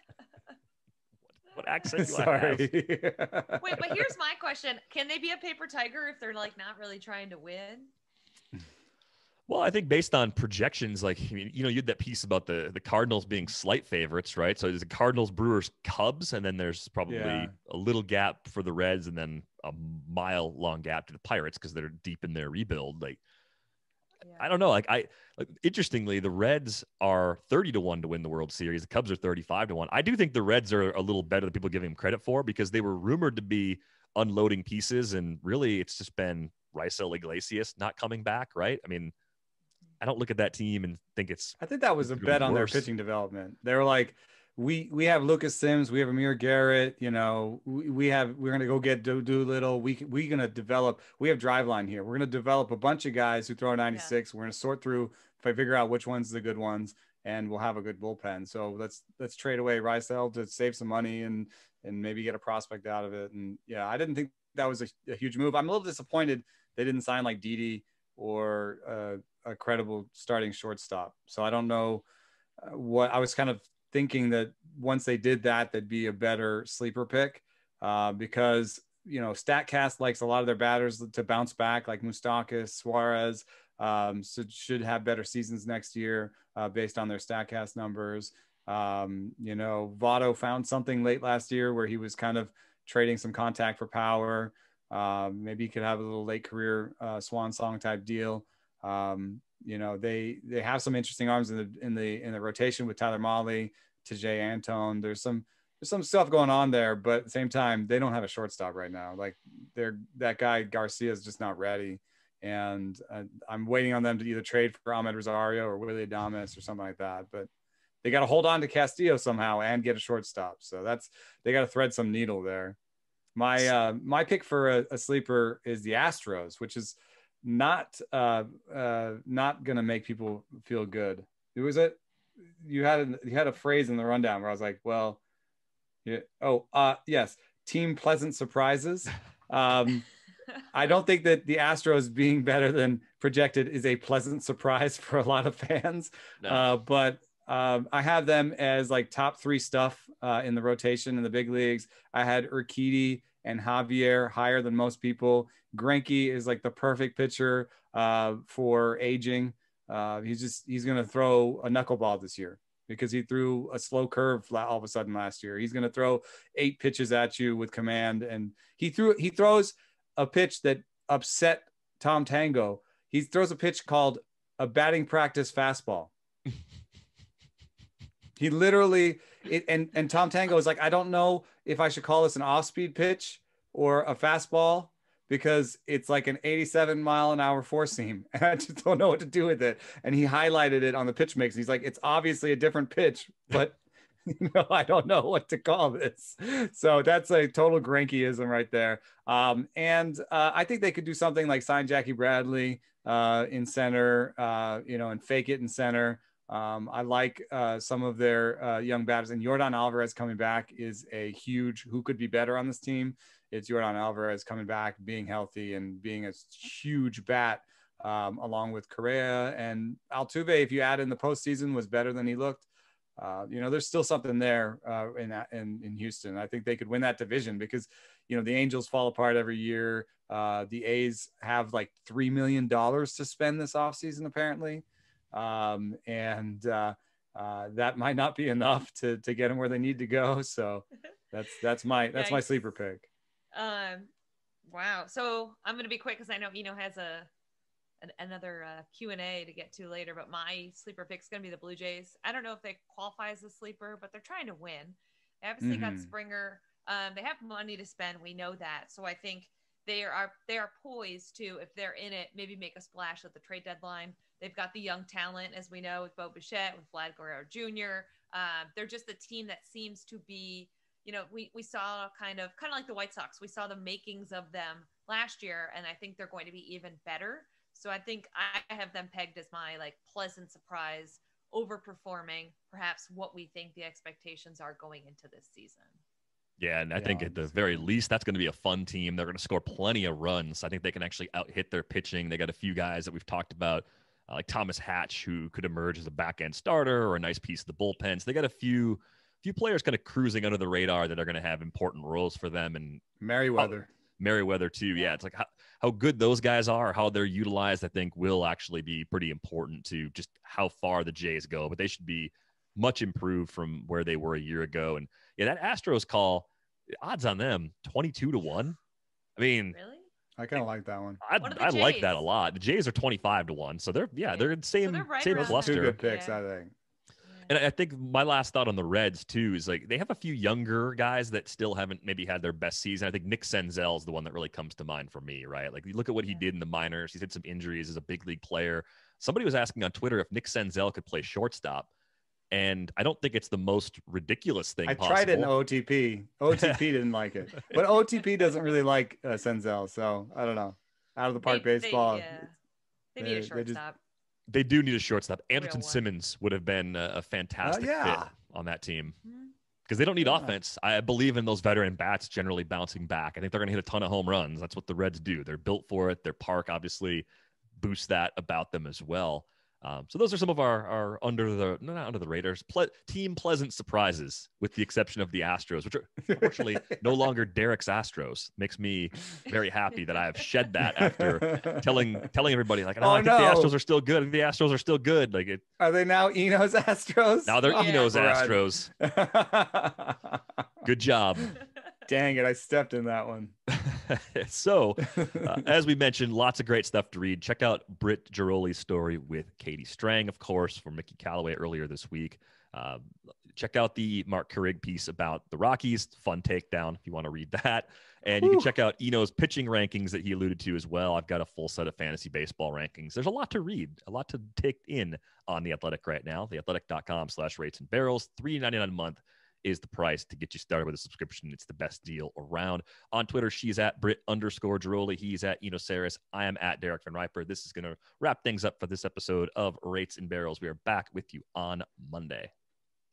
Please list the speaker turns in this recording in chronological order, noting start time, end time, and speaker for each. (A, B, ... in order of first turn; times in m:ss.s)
0:01.4-0:02.7 A
0:02.0-0:04.1 B
0:03.6-0:07.9 C
0:09.5-0:23.2 A
0:17.1-0:17.5 B
0:24.2-0:24.5 C
0:24.4-0:39.1 A
0:40.0-0:42.9 A
0:41.6-1:12.0 B
1:12.6-1:57.5 B
1:58.0-2:02.8 B
2:03.4-2:12.0 B
2:12.6-2:15.2 B
2:16.0-2:20.1 B
2:20.7-2:56.1 B
2:58.4-4:03.1 B
4:02.1-4:02.6 C
4:03.5-4:04.1 C
4:04.7-4:07.3 C
4:08.0-4:46.0 C
4:15.6-4:16.1 B
4:46.6-5:03.0 A
4:47.0-4:47.9 B
5:03.2-5:03.9 B
5:03.6-5:16.5 A
5:17.0-5:18.8 A
5:19.4-5:19.8 A
5:19.7-5:20.1 C
5:20.4-5:21.2 B
5:21.2-5:26.0 A
5:21.4-5:22.3 C
5:24.3-5:26.4 C
5:25.3-5:26.7 B
5:27.3-5:27.5 C
5:27.5-5:41.9 A
5:42.5-5:45.5 A
5:44.9-5:52.4 B
5:46.5-5:46.8 A
5:51.4-5:52.6 C
5:53.2-5:54.0 C
5:53.2-5:53.8 B
5:54.5-5:59.2 A
5:55.6-5:56.0 C
5:57.6-5:58.3 B
5:59.2-5:59.5 C
5:59.9-6:25.6 A
6:00.2-6:00.6 B
6:16.3-6:17.0 B
6:21.0-6:22.2 B
6:23.0-6:23.7 B
6:25.8-6:30.4 B
6:27.5-6:28.9 A
6:27.7-6:28.1 C
6:30.8-6:31.6 A
6:32.1-6:33.6 B
6:33.7-7:12.5 A
6:35.2-6:35.5 B
6:48.4-6:48.7 B